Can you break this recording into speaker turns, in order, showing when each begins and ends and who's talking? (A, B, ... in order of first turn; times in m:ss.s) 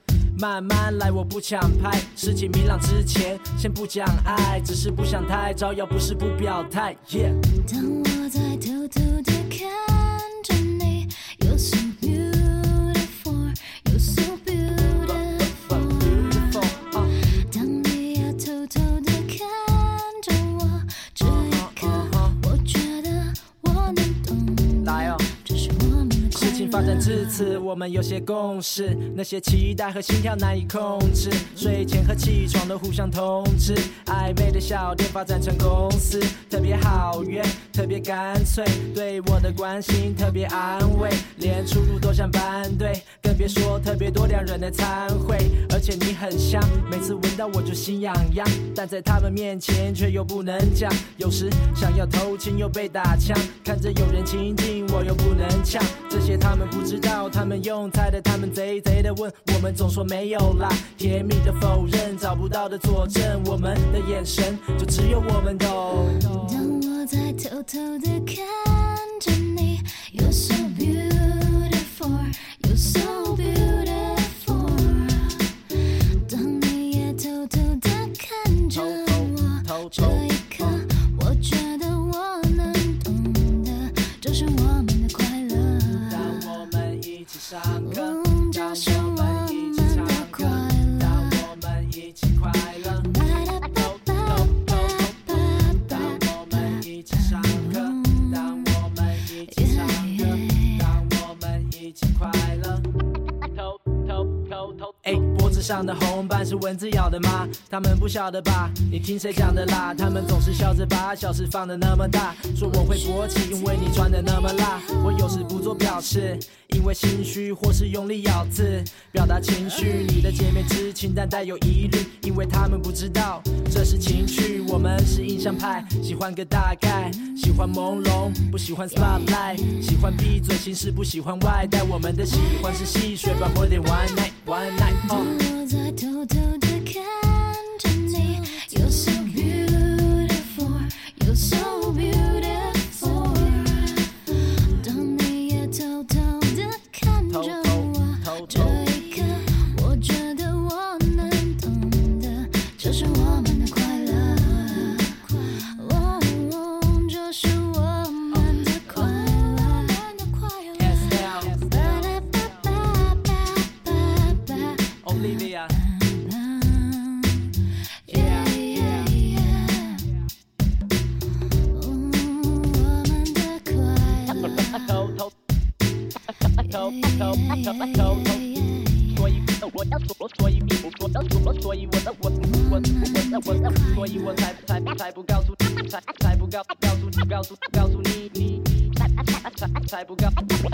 0:00.3-0:07.4 A
0:07.5-0:27.6 B
0:15.1-0:17.1 A
0:21.2-0:22.4 A
0:24.8-0:25.2 A
0:26.3-1:06.3 A
1:06.2-1:26.7 B
1:18.8-1:20.2 A
1:26.1-1:33.1 A
1:27.8-1:31.5 B
1:33.0-1:41.0 B
1:34.4-1:35.0 A
1:35.9-1:42.8 A
1:44.1-2:15.3 A
1:49.3-1:50.7 B
1:52.6-1:55.9 B
1:59.6-2:00.7 B
2:04.8-2:05.1 B
2:07.3-2:10.2 B
2:12.3-2:50.1 B
2:27.5-2:28.9 A
2:40.8-2:41.7 A
2:45.0-2:45.7 A
2:48.1-2:49.1 A
2:51.5-2:55.2 B
2:56.4-2:59.5 B
3:00.4-3:02.3 A
3:02.3-3:04.6 B
3:03.7-3:05.7 A
3:07.1-3:08.4 A